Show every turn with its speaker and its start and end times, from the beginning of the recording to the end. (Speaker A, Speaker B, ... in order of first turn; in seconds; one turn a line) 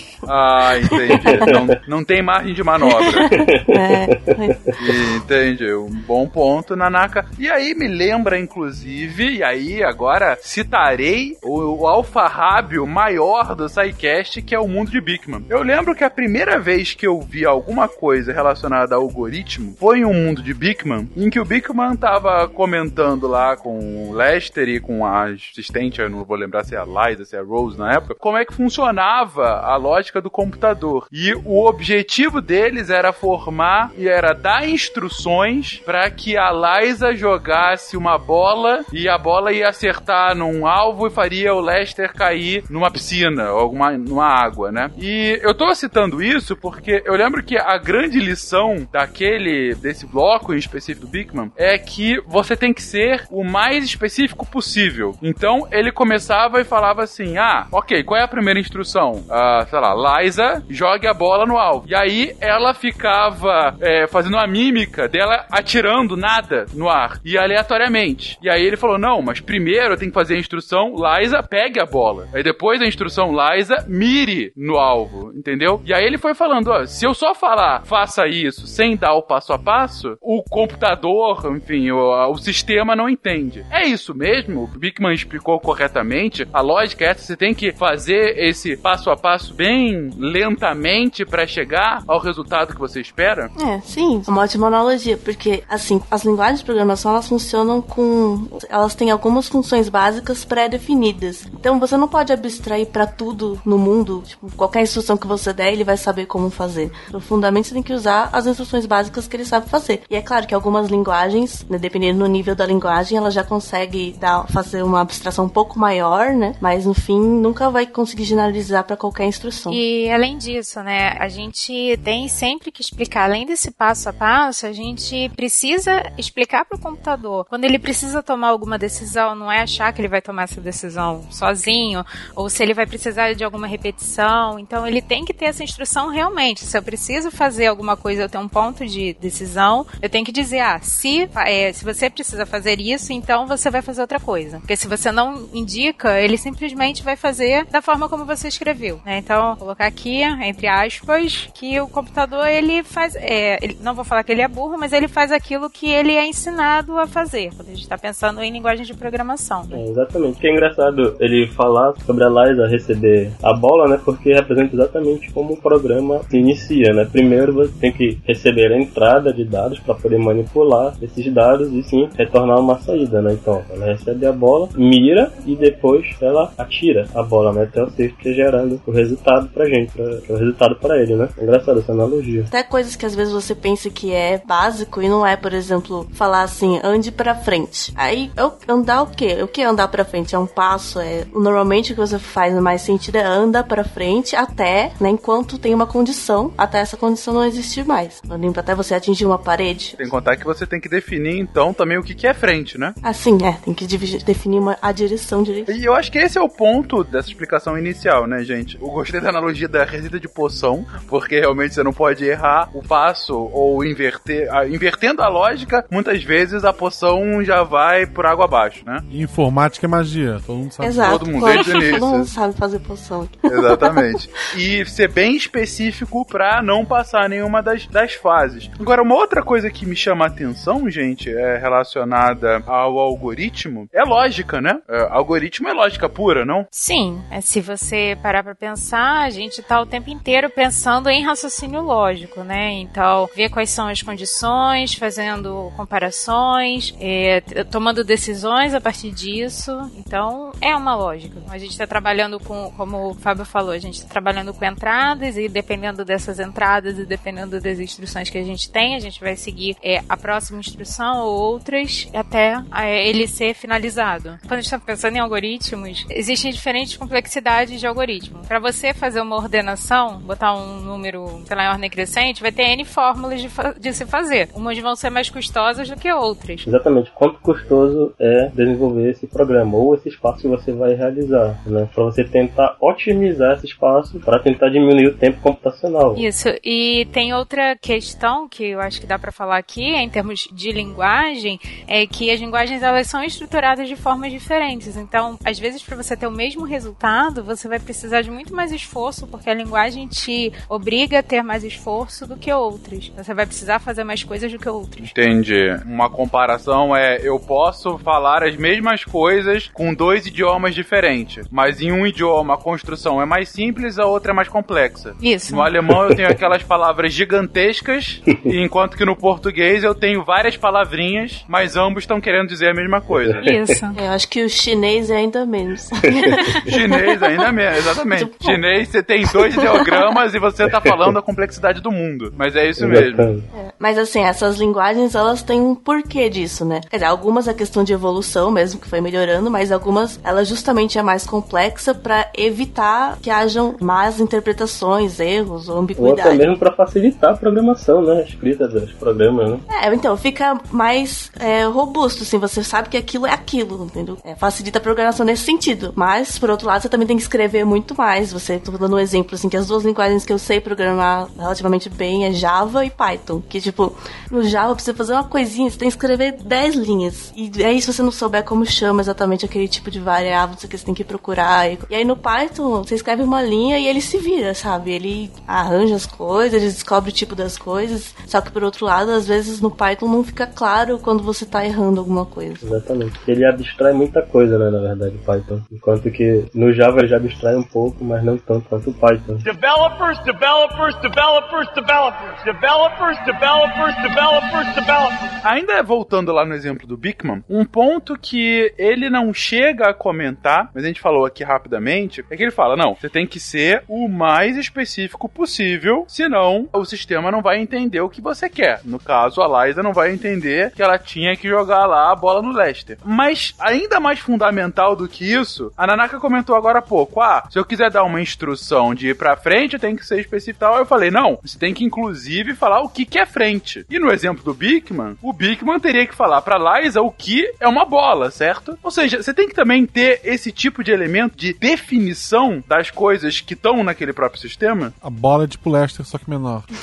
Speaker A: 0.2-3.3
Speaker B: 0.8-1.6
Speaker C: 1.1-1.7
Speaker B: 2.9-4.6
Speaker C: 3.3-4.8
Speaker A: 4.8-93.5
Speaker B: 93.5-119.8
Speaker D: 119.7-159.8
Speaker C: 159.7-182.5
Speaker B: 182.5-200.0
Speaker A: 200.0-203.0
Speaker B: 203.0-205.7
Speaker A: 205.7-219.0
Speaker E: 219.1-221.5
Speaker B: 220.8-224.2
Speaker A: 221.0-222.3
Speaker A: 223.5-236.7
Speaker D: 236.7-276.6
Speaker C: 276.6-286.2
Speaker D: 286.1-305.1
Speaker A: 305.0-323.4
Speaker D: 315.2-315.7
Speaker C: 315.9-316.3
Speaker C: 323.2-323.6
Speaker D: 323.4-324.0
Speaker B: 323.9-328.6
Speaker A: 326.7-333.3
Speaker B: 329.2-330.2
Speaker C: 330.7-331.0
Speaker C: 332.8-333.5
Speaker B: 333.5-346.4
Speaker C: 346.0-349.6
Speaker B: 349.7-382.6
Speaker C: 382.6-389.4
Speaker F: 389.4-395.3
Speaker A: 395.4-434.9
Speaker E: 435.0-436.7